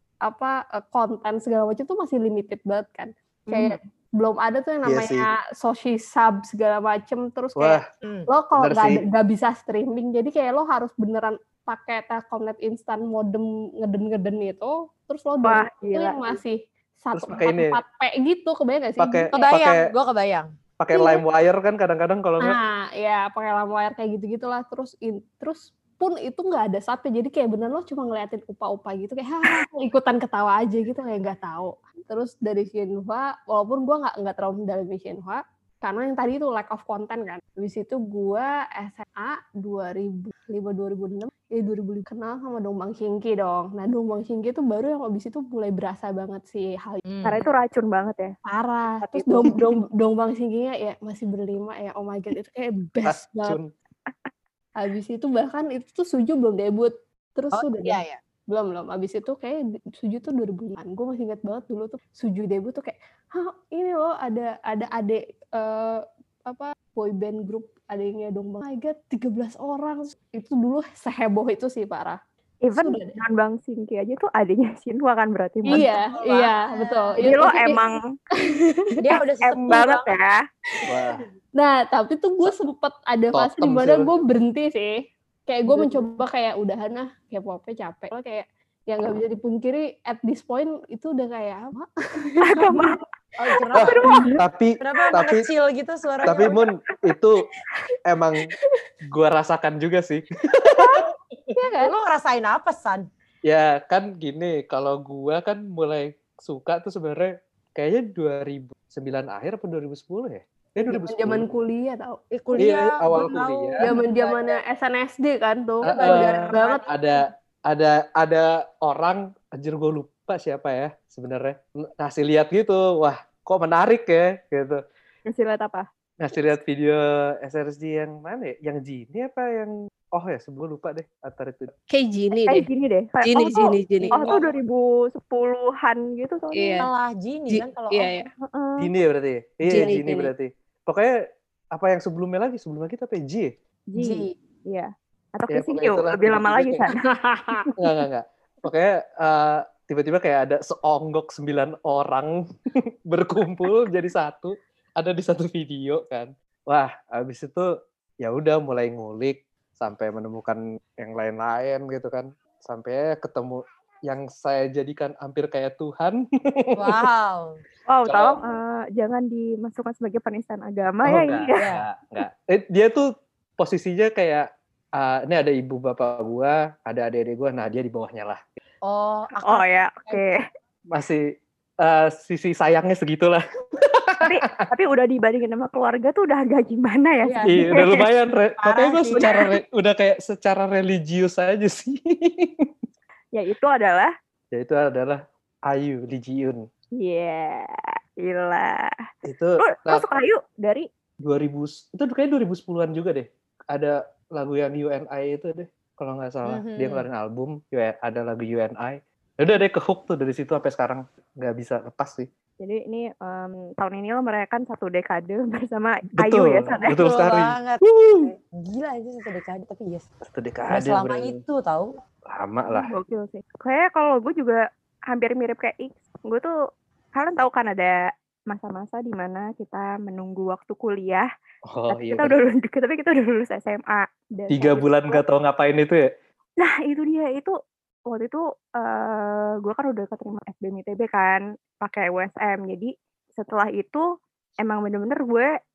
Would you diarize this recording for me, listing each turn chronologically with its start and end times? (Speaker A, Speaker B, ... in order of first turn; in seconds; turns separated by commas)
Speaker A: 0.2-19.3, Speaker B: 4.8-5.3, Speaker B: 7.6-7.8, Speaker C: 8.0-8.3, Speaker B: 8.6-9.0, Speaker D: 15.4-16.4, Speaker B: 17.1-17.8, Speaker B: 19.0-19.9, Speaker C: 19.3-20.5, Speaker B: 20.8-22.6, Speaker A: 20.9-21.2, Speaker A: 22.4-47.0, Speaker C: 47.1-47.5, Speaker D: 47.2-48.3, Speaker A: 48.4-53.6, Speaker D: 49.0-49.6, Speaker B: 53.0-53.7, Speaker A: 54.8-72.2, Speaker C: 57.5-58.2, Speaker D: 72.6-75.9, Speaker A: 72.7-73.2, Speaker C: 75.7-77.4, Speaker A: 75.7-77.8, Speaker D: 77.2-78.0, Speaker A: 78.4-79.1, Speaker C: 79.0-80.1, Speaker D: 79.4-80.4, Speaker A: 80.8-92.8, Speaker B: 80.8-81.2, Speaker B: 83.3-84.1, Speaker C: 85.7-86.1, Speaker D: 92.4-93.0, Speaker C: 93.4-94.1, Speaker D: 93.7-94.4, Speaker B: 93.7-95.5, Speaker C: 94.8-96.5, Speaker B: 96.2-97.4, Speaker B: 98.1-98.5, Speaker B: 99.1-101.5, Speaker A: 100.8-101.0, Speaker A: 101.5-101.9, Speaker C: 101.8-103.1, Speaker B: 103.4-111.4, Speaker A: 110.9-112.7, Speaker C: 112.3-114.6, Speaker B: 112.6-113.8, Speaker A: 113.8-117.3, Speaker B: 115.8-117.2, Speaker C: 115.9-116.9, Speaker B: 117.7-124.8, Speaker D: 125.3-125.9, Speaker B: 126.2-131.7, Speaker A: 131.9-132.7, Speaker D: 132.4-136.8, Speaker A: 133.2-134.5, Speaker C: 134.0-134.4, Speaker A: 136.5-136.9, Speaker C: 136.8-138.1, Speaker A: 137.5-138.3, Speaker D: 138.4-138.9, Speaker B: 138.8-141.2, Speaker A: 139.7-140.3, Speaker B: 141.7-143.5, Speaker D: 143.9-147.0, Speaker C: 144.0-144.3, Speaker B: 145.5-146.8, Speaker A: 146.9-147.7, Speaker B: 147.8-152.4, Speaker B: 153.1-167.0, Speaker C: 166.8-167.6, Speaker D: 167.9-171.6, Speaker B: 168.1-168.4, Speaker B: 171.0-173.1, Speaker C: 171.6-171.8, Speaker B: 173.6-174.4, Speaker B: 175.0-178.4, Speaker C: 178.8-180.2, Speaker D: 179.4-180.4, Speaker B: 180.9-181.3, Speaker B: 181.8-184.7, Speaker D: 184.2-188.0, Speaker C: 187.2-187.9, Speaker B: 187.5-192.7, Speaker C: 188.6-189.3, Speaker D: 189.1-189.4, Speaker D: 193.3-194.1, Speaker B: 194.5-196.6, Speaker D: 197.0-198.9, Speaker B: 199.2-200.0, Speaker D: 199.6-200.9, Speaker B: 201.2-212.3, Speaker C: 206.4-207.1, Speaker D: 212.6-216.9, Speaker B: 216.2-218.3, Speaker C: 216.7-220.0, Speaker B: 220.2-221.4, Speaker C: 220.7-222.0, Speaker B: 222.3-222.9, Speaker D: 222.7-226.5, Speaker D: 227.1-231.3, Speaker B: 231.7-232.3, Speaker D: 231.9-235.2, Speaker B: 234.5-236.1, Speaker D: 236.6-237.5, Speaker D: 238.1-244.0, Speaker D: 244.6-245.5